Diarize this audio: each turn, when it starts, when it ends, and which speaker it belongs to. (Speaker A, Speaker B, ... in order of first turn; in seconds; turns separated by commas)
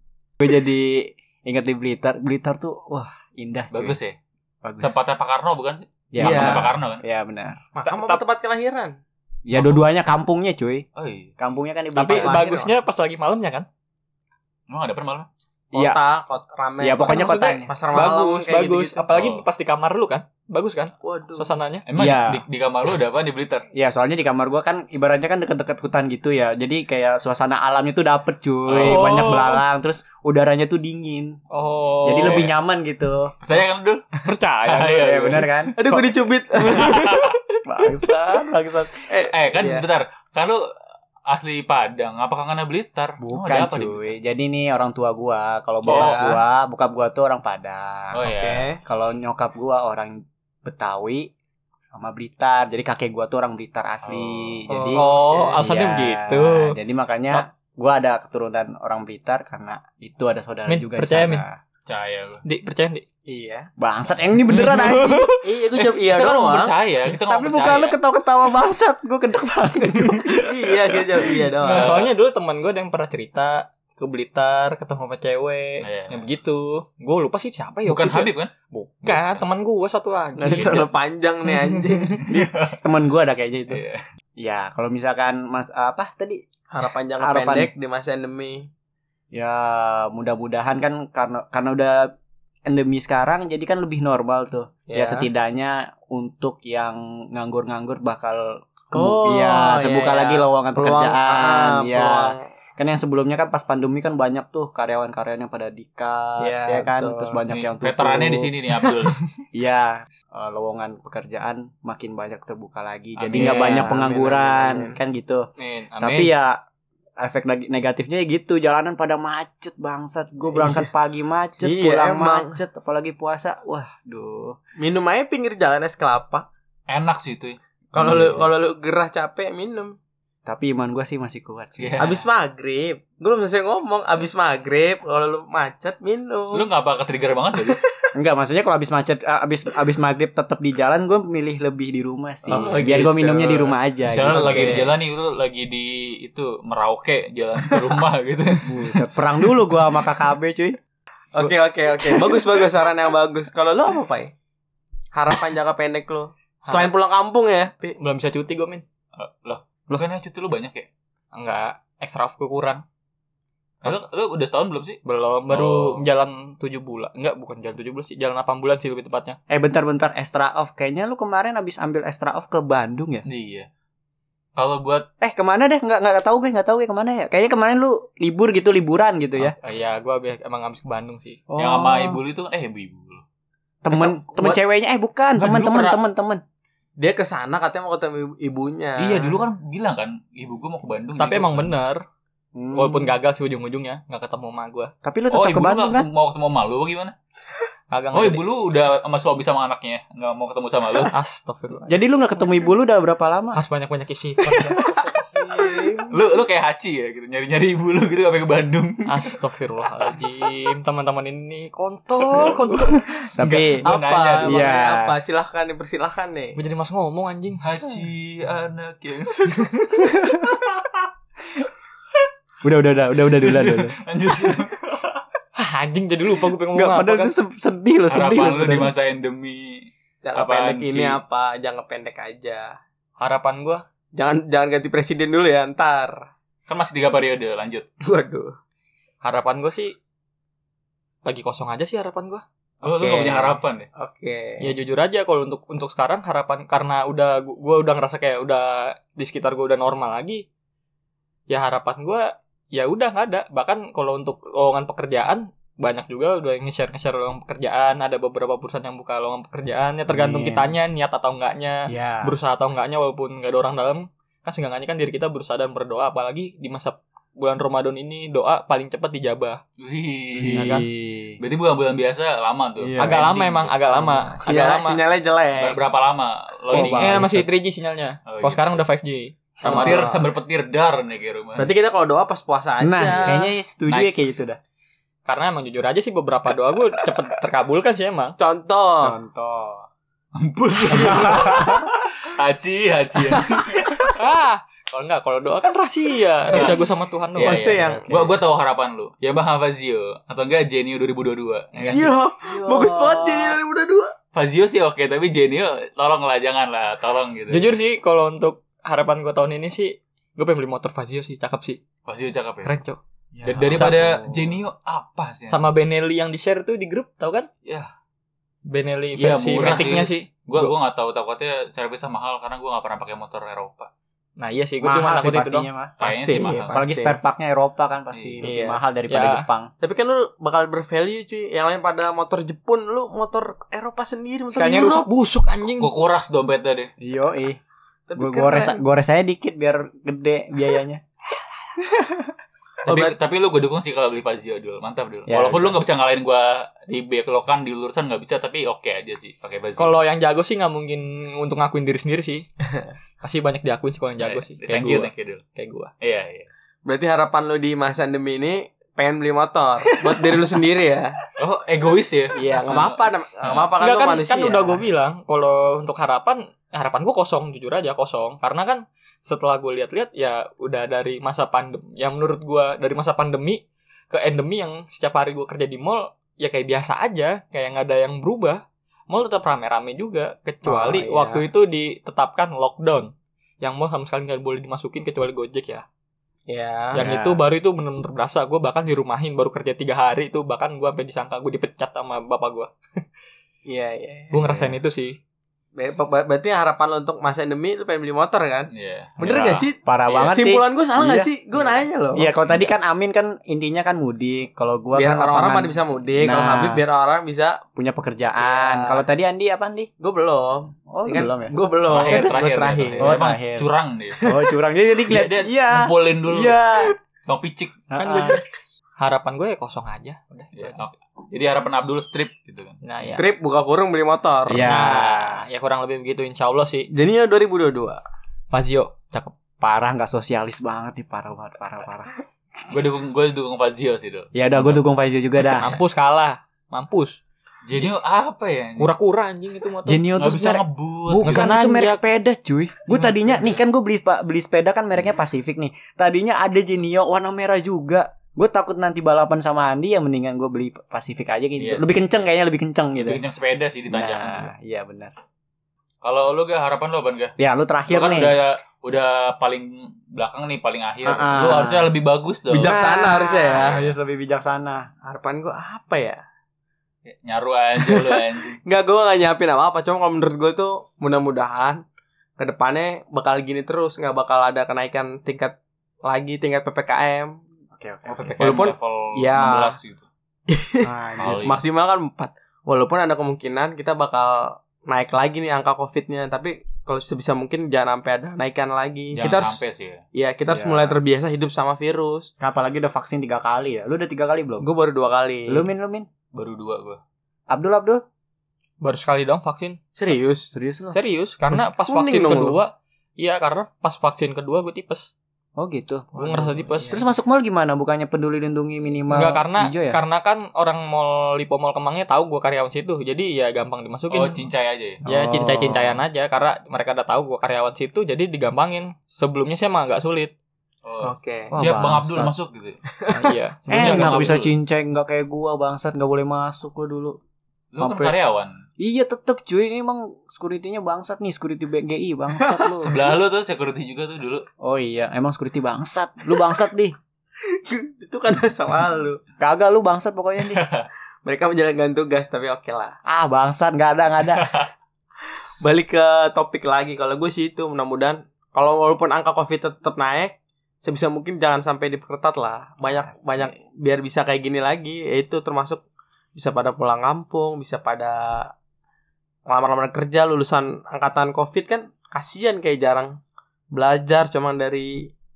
Speaker A: 0.4-4.0, Speaker B: 3.7-4.2, Speaker A: 4.6-5.0, Speaker B: 4.8-7.0, Speaker A: 6.1-7.6, Speaker C: 6.2-6.6, Speaker C: 7.8-9.0, Speaker D: 7.8-8.2, Speaker A: 9.5-10.9, Speaker B: 9.5-9.9, Speaker B: 11.0-11.3, Speaker A: 11.4-12.4, Speaker D: 11.9-13.7, Speaker C: 12.1-12.7, Speaker B: 14.7-15.3, Speaker C: 15.7-19.0, Speaker A: 15.7-16.0, Speaker A: 16.8-17.7, Speaker D: 17.1-21.9, Speaker B: 19.1-19.4, Speaker C: 21.0-21.5, Speaker B: 21.9-23.7, Speaker A: 21.9-22.4, Speaker A: 23.7-31.4, Speaker B: 28.7-29.3, Speaker D: 28.8-29.6, Speaker D: 31.5-32.5, Speaker A: 32.0-33.3, Speaker B: 32.2-32.5, Speaker B: 33.4-35.7, Speaker A: 34.3-36.1, Speaker C: 35.8-37.1, Speaker B: 36.7-37.4, Speaker D: 36.8-37.2, Speaker A: 37.7-39.0, Speaker C: 39.1-39.9, Speaker B: 39.3-40.7, Speaker B: 41.3-44.1, Speaker A: 43.2-48.2, Speaker C: 45.9-46.4, Speaker B: 45.9-46.2, Speaker B: 48.1-48.7, Speaker C: 48.2-48.8, Speaker A: 48.9-51.3, Speaker A: 51.9-61.6, Speaker B: 54.0-54.6, Speaker C: 54.7-55.6, Speaker D: 55.0-56.8, Speaker D: 60.7-61.4, Speaker B: 61.9-62.4, Speaker D: 62.5-63.0, Speaker C: 63.3-63.7, Speaker A: 63.8-65.3, Speaker D: 64.5-65.3, Speaker C: 65.4-66.7, Speaker B: 65.8-68.0, Speaker A: 67.2-71.3, Speaker C: 70.4-72.1, Speaker D: 71.6-80.9, Speaker B: 71.7-72.1, Speaker B: 75.8-76.2, Speaker B: 77.9-78.5, Speaker B: 79.0-79.5, Speaker C: 80.4-82.2, Speaker B: 80.5-80.9, Speaker B: 82.2-82.8, Speaker A: 82.3-83.8, Speaker B: 83.7-84.0, Speaker A: 84.4-86.4, Speaker C: 86.7-88.7, Speaker A: 87.2-87.7, Speaker A: 89.3-92.1, Speaker A: 92.7-108.5, Speaker C: 94.9-95.3, Speaker C: 98.9-102.5, Speaker C: 106.4-107.4, Speaker B: 107.5-109.2, Speaker A: 109.5-115.5, Speaker B: 113.2-113.9, Speaker C: 113.4-115.0, Speaker D: 115.6-116.3, Speaker A: 116.0-116.6, Speaker A: 117.2-124.6, Speaker C: 121.6-122.6, Speaker C: 124.8-126.5, Speaker B: 126.9-128.4, Speaker C: 127.9-130.0, Speaker A: 128.0-128.4, Speaker A: 130.5-132.0, Speaker B: 131.8-132.3, Speaker C: 132.0-136.7, Speaker B: 136.5-137.8, Speaker A: 138.2-144.9, Speaker C: 142.5-143.7, Speaker B: 142.5-149.1, Speaker C: 144.3-144.9, Speaker A: 148.7-150.8, Speaker C: 151.3-154.3, Speaker C: 155.2-158.0, Speaker D: 156.7-156.9, Speaker D: 158.0-158.8, Speaker B: 159.2-160.9, Speaker D: 161.3-162.8, Speaker B: 163.8-166.1, Speaker D: 165.1-169.4, Speaker A: 169.5-173.2, Speaker B: 173.2-173.7, Speaker B: 174.6-175.1, Speaker A: 175.2-179.6, Speaker D: 179.6-181.4, Speaker A: 181.5-182.2, Speaker B: 181.6-183.2, Speaker A: 183.8-186.4, Speaker C: 183.9-184.6, Speaker B: 185.3-186.0, Speaker C: 187.0-189.4, Speaker B: 189.0-191.7, Speaker D: 191.2-192.0, Speaker A: 192.6-193.1, Speaker D: 192.7-194.9, Speaker A: 195.0-196.1, Speaker B: 195.3-197.2, Speaker D: 197.9-198.4, Speaker B: 198.1-201.1, Speaker D: 201.1-202.7, Speaker A: 201.9-203.6, Speaker D: 203.6-204.9, Speaker A: 204.6-204.8, Speaker A: 205.3-206.1, Speaker B: 206.1-209.3, Speaker D: 209.1-213.1, Speaker A: 212.9-213.9, Speaker B: 213.4-214.7, Speaker C: 213.8-216.6, Speaker A: 214.4-215.2, Speaker D: 216.6-217.6, Speaker B: 217.6-221.1, Speaker A: 222.6-224.0, Speaker B: 223.3-225.2, Speaker D: 225.6-227.3, Speaker A: 226.7-228.9, Speaker B: 228.1-231.2, Speaker C: 230.2-232.8, Speaker D: 233.2-233.8, Speaker C: 234.2-236.3, Speaker B: 236.7-237.9, Speaker C: 238.0-238.6, Speaker D: 239.2-239.9, Speaker D: 241.2-242.4, Speaker C: 242.8-244.7, Speaker B: 242.8-243.9, Speaker D: 244.6-250.4, Speaker D: 251.5-269.6, Speaker A: 260.1-260.8, Speaker A: 261.9-262.4, Speaker B: 269.8-270.9, Speaker A: 270.4-271.4, Speaker D: 270.5-270.9, Speaker B: 271.4-273.7, Speaker A: 272.8-273.3, Speaker D: 273.0-275.0, Speaker A: 273.9-274.4, Speaker C: 274.4-275.8, Speaker B: 275.6-277.3, Speaker A: 276.7-277.5, Speaker D: 276.7-280.1, Speaker B: 278.3-278.7, Speaker C: 279.6-280.3, Speaker B: 279.6-281.7, Speaker C: 281.6-283.5, Speaker A: 282.8-284.6, Speaker B: 283.9-284.4, Speaker D: 285.3-288.4, Speaker C: 288.4-289.2, Speaker A: 289.0-289.9, Speaker B: 290.4-294.2, Speaker A: 290.9-291.9, Speaker D: 294.1-297.6, Speaker B: 296.5-296.8, Speaker C: 297.4-298.1, Speaker B: 297.4-302.1, Speaker A: 298.1-298.4, Speaker D: 301.8-302.1, Speaker C: 301.9-304.1, Speaker A: 302.4-303.6, Speaker B: 304.3-307.7, Speaker D: 307.5-311.8, Speaker B: 312.1-312.7, Speaker D: 312.6-314.6, Speaker B: 313.4-315.6, Speaker A: 313.6-314.1, Speaker D: 315.5-317.5, Speaker B: 317.6-317.9, Speaker D: 318.7-320.7, Speaker B: 319.2-323.9, Speaker D: 324.4-325.7, Speaker A: 324.8-325.9, Speaker B: 326.0-326.9, Speaker C: 326.0-327.2, Speaker A: 326.7-329.7, Speaker B: 328.1-328.4, Speaker C: 328.4-328.8, Speaker D: 329.1-329.5, Speaker C: 329.8-335.1, Speaker D: 334.5-335.9, Speaker B: 335.8-336.9, Speaker A: 337.0-337.6, Speaker C: 338.1-338.8, Speaker A: 338.2-341.0, Speaker A: 341.8-342.3, Speaker C: 342.8-343.2, Speaker B: 342.9-349.9, Speaker A: 345.3-345.8, Speaker D: 349.8-352.5, Speaker D: 353.2-355.9, Speaker B: 354.2-355.4, Speaker B: 356.0-356.5, Speaker C: 356.9-361.2, Speaker B: 361.4-363.7, Speaker C: 362.3-364.8, Speaker D: 363.8-385.9, Speaker C: 380.6-381.5, Speaker C: 386.5-387.0, Speaker D: 386.9-392.7, Speaker A: 387.0-387.4, Speaker C: 393.7-394.4, Speaker D: 394.3-395.2, Speaker C: 395.8-399.8, Speaker B: 398.7-400.4, Speaker A: 399.3-406.8, Speaker C: 400.3-402.3, Speaker C: 404.9-407.6, Speaker A: 407.8-409.9, Speaker C: 408.4-409.0, Speaker C: 410.0-413.2, Speaker A: 410.9-412.4, Speaker B: 411.9-414.3, Speaker A: 413.0-413.7, Speaker A: 414.2-416.9, Speaker B: 415.1-416.6, Speaker B: 417.2-417.8, Speaker A: 417.9-418.4, Speaker D: 418.0-418.4, Speaker D: 419.0-420.8, Speaker B: 420.5-422.8, Speaker D: 422.8-423.2, Speaker C: 423.0-424.7, Speaker A: 424.5-425.4, Speaker D: 424.7-426.9, Speaker C: 426.9-428.0, Speaker D: 428.5-429.3, Speaker A: 429.6-432.1, Speaker B: 432.7-434.8, Speaker A: 434.4-435.8, Speaker D: 435.6-437.2, Speaker B: 437.6-438.9, Speaker D: 438.8-440.1, Speaker A: 439.9-453.2, Speaker B: 440.2-441.5, Speaker D: 441.2-442.0, Speaker B: 443.0-443.5, Speaker B: 451.6-452.0, Speaker B: 453.0-454.5, Speaker A: 453.9-455.1, Speaker B: 456.0-457.4, Speaker A: 457.4-458.3, Speaker B: 457.9-462.8, Speaker A: 461.1-461.9, Speaker C: 462.5-463.8, Speaker A: 462.6-464.9, Speaker B: 463.6-463.9, Speaker C: 465.1-466.2, Speaker B: 467.1-468.6, Speaker C: 467.8-471.8, Speaker C: 472.4-477.4, Speaker A: 477.8-478.6, Speaker B: 478.1-480.1, Speaker C: 478.4-479.8, Speaker C: 480.5-489.6, Speaker A: 480.8-481.4, Speaker B: 481.2-481.6, Speaker B: 489.1-490.0, Speaker C: 490.1-492.3, Speaker A: 490.5-491.0, Speaker A: 492.4-494.7, Speaker C: 494.6-495.7, Speaker A: 495.5-496.1, Speaker B: 496.3-497.0, Speaker A: 497.5-498.0, Speaker D: 498.8-499.8, Speaker C: 500.0-500.5, Speaker A: 500.5-501.0, Speaker D: 500.9-505.1, Speaker C: 501.8-502.6, Speaker A: 505.6-510.0, Speaker D: 506.1-507.0, Speaker D: 509.1-514.5, Speaker B: 514.1-515.0, Speaker A: 515.1-516.0, Speaker D: 515.1-520.3, Speaker B: 520.8-522.8, Speaker C: 521.0-521.5, Speaker A: 521.5-522.3, Speaker C: 523.0-523.4, Speaker D: 523.1-524.4, Speaker B: 523.7-524.5, Speaker A: 523.7-527.2, Speaker B: 527.7-528.6, Speaker A: 527.8-528.2, Speaker A: 528.8-533.0, Speaker C: 532.4-532.7, Speaker B: 532.8-534.5, Speaker A: 534.6-536.9, Speaker C: 537.5-539.2, Speaker A: 539.4-540.6, Speaker B: 540.5-540.9, Speaker C: 541.2-543.0, Speaker A: 543.1-544.5, Speaker C: 545.6-555.8, Speaker A: 552.9-553.5, Speaker C: 556.4-558.5, Speaker C: 559.5-563.2, Speaker C: 563.7-565.1